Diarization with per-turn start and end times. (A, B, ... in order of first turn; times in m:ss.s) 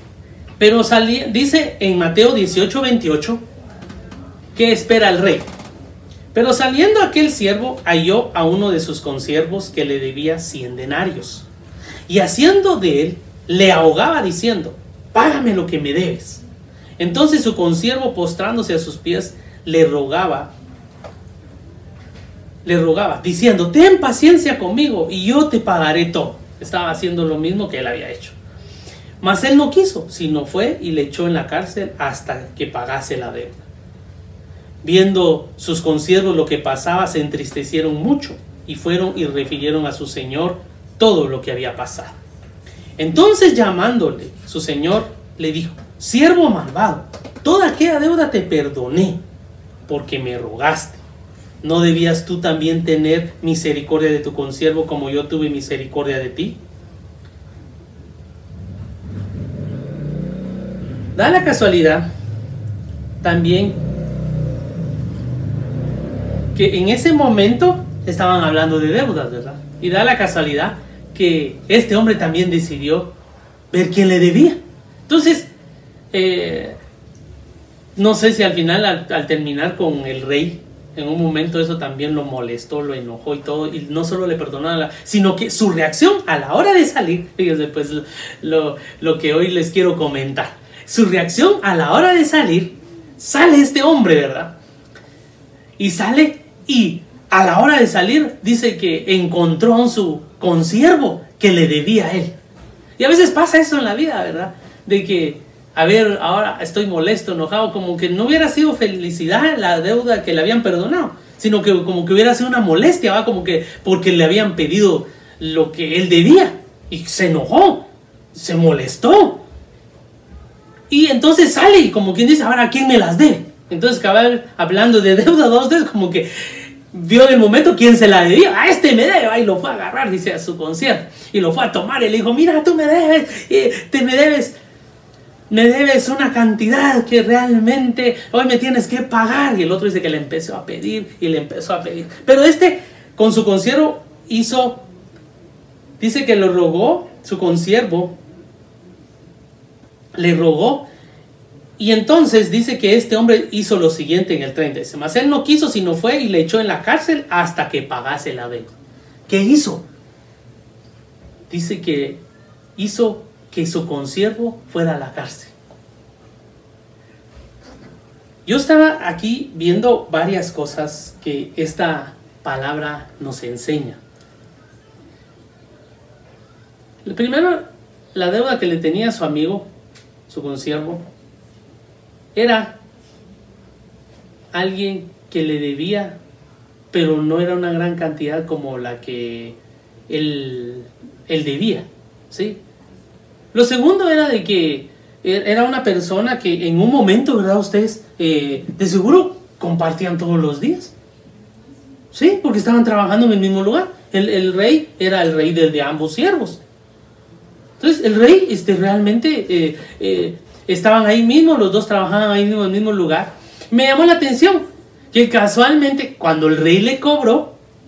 0:00.6-0:03.4 A
0:04.5-0:05.5 A
0:06.3-0:11.4 A
0:12.1-0:16.4 A
0:17.0-0:20.5 A
0:22.6-0:28.4 A
0:29.2-0:33.6 A
0:34.8-0:42.2 A
0:43.0-0:49.2 A
0:49.9-0:51.0 A
0:51.6-0:56.6 A
1:01.1-1:02.0 A
1:03.2-1:03.8 A
1:06.5-1:13.1 A
1:13.7-1:15.5 A
1:16.1-1:16.8 A
1:18.0-1:34.5 A
1:35.8-1:42.3 A
1:43.0-1:59.4 A
2:00.9-2:14.6 A
2:15.5-2:24.8 A
2:26.0-2:28.2 A
2:30.2-2:30.9 A
2:31.8-2:38.7 A
2:39.3-2:39.8 A
2:41.5-2:42.2 A
2:42.8-2:45.5 A
2:48.4-2:54.0 A
2:57.0-2:59.6 A
3:00.3-3:01.0 A
3:02.3-3:02.8 A
3:04.5-3:06.2 A
3:06.9-3:09.6 A
3:10.1-3:12.6 A
3:13.5-3:20.9 A
3:22.1-3:26.6 A
3:27.8-3:37.5 A